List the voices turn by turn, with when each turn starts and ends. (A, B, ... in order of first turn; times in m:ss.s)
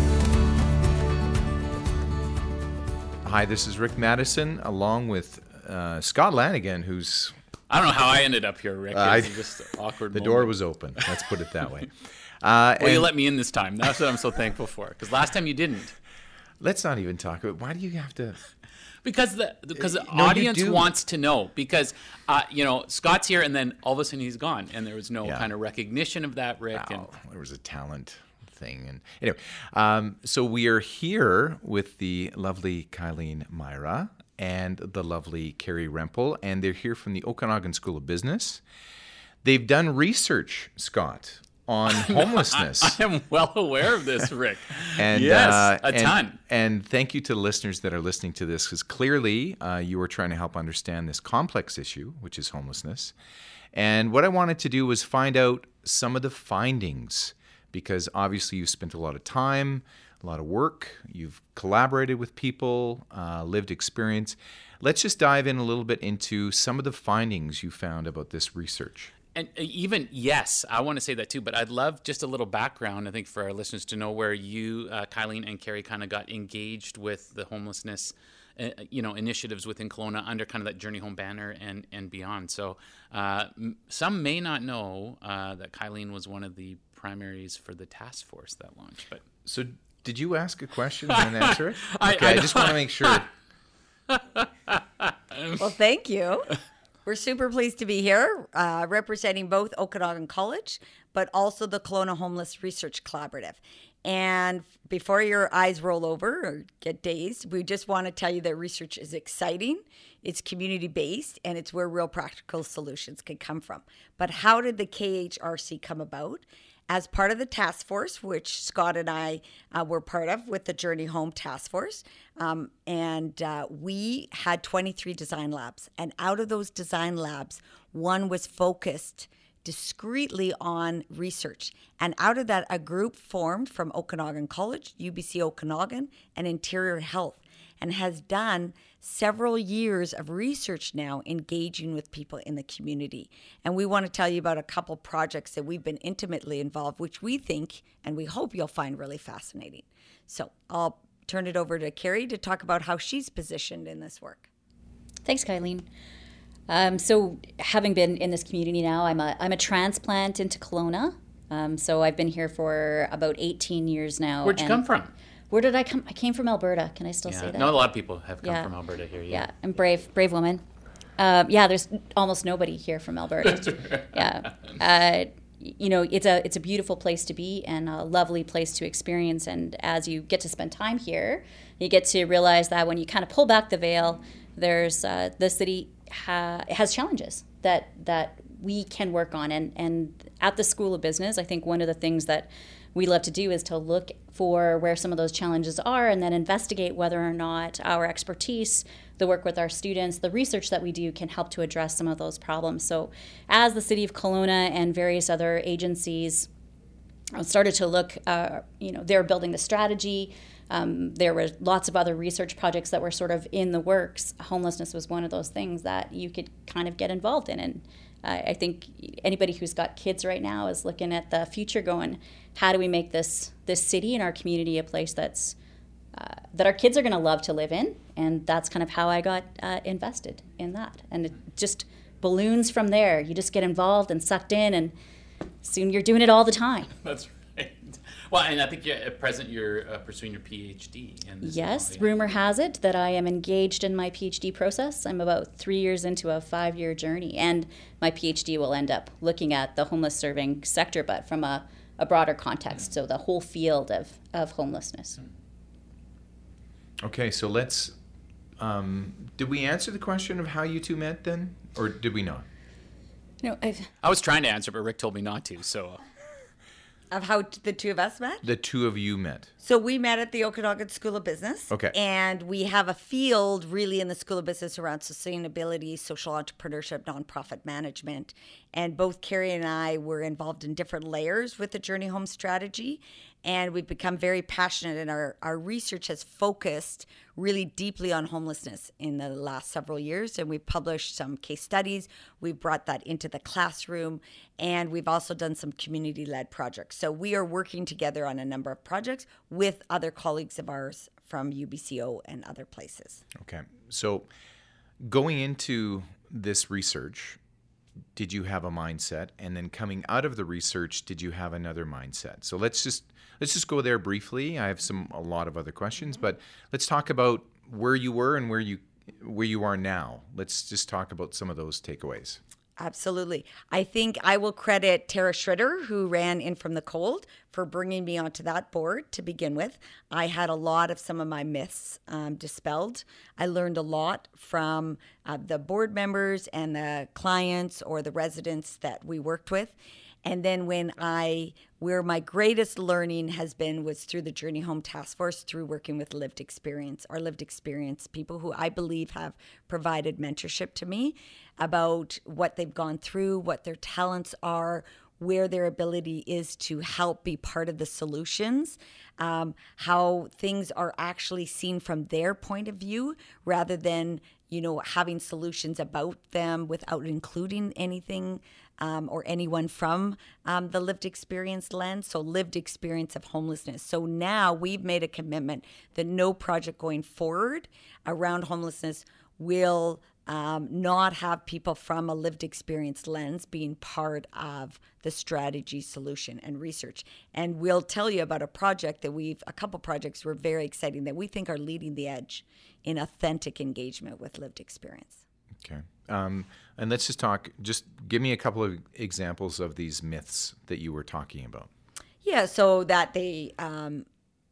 0:03.2-0:07.3 A
0:07.7-0:11.1 B
0:08.9-0:09.4 A
0:10.1-0:13.1 A
0:12.8-0:15.9 B
0:16.6-0:18.4 A
0:19.0-0:27.1 B
0:19.8-0:20.9 A
0:25.2-0:25.5 A
0:26.7-0:38.6 A
0:39.4-0:43.0 A
0:41.9-0:46.4 B
0:45.0-0:53.1 A
0:53.7-1:09.1 A
1:09.3-1:29.2 B
1:29.4-1:33.3 A
1:31.1-1:33.2 B
1:34.1-1:35.6 B
1:35.6-1:36.5 C
1:37.0-2:34.5 C
2:35.2-2:35.9 D
2:36.7-2:44.8 D
2:44.4-2:45.1 B
2:45.5-2:47.8 D
2:47.3-2:49.4 B
2:48.4-2:48.7 D
2:49.3-2:50.6 D
2:51.2-3:26.5 D
2:53.7-2:54.0 B
3:27.3-3:45.6 D
3:46.1-3:54.9 D
3:55.6-3:56.9 D
3:57.0-4:02.1 B
4:01.4-4:15.2 D
4:17.0-4:17.9 A
4:18.6-4:22.4 A
4:23.4-4:23.9 D
4:24.0-4:26.0 B
4:27.1-4:28.4 C
4:28.4-4:29.5 A
4:29.6-5:03.2 C
5:03.4-5:04.3 A
5:05.0-5:07.4 A
5:08.1-5:22.4 A
5:22.8-6:35.2 C
6:35.6-6:41.7 A
6:42.2-6:44.0 C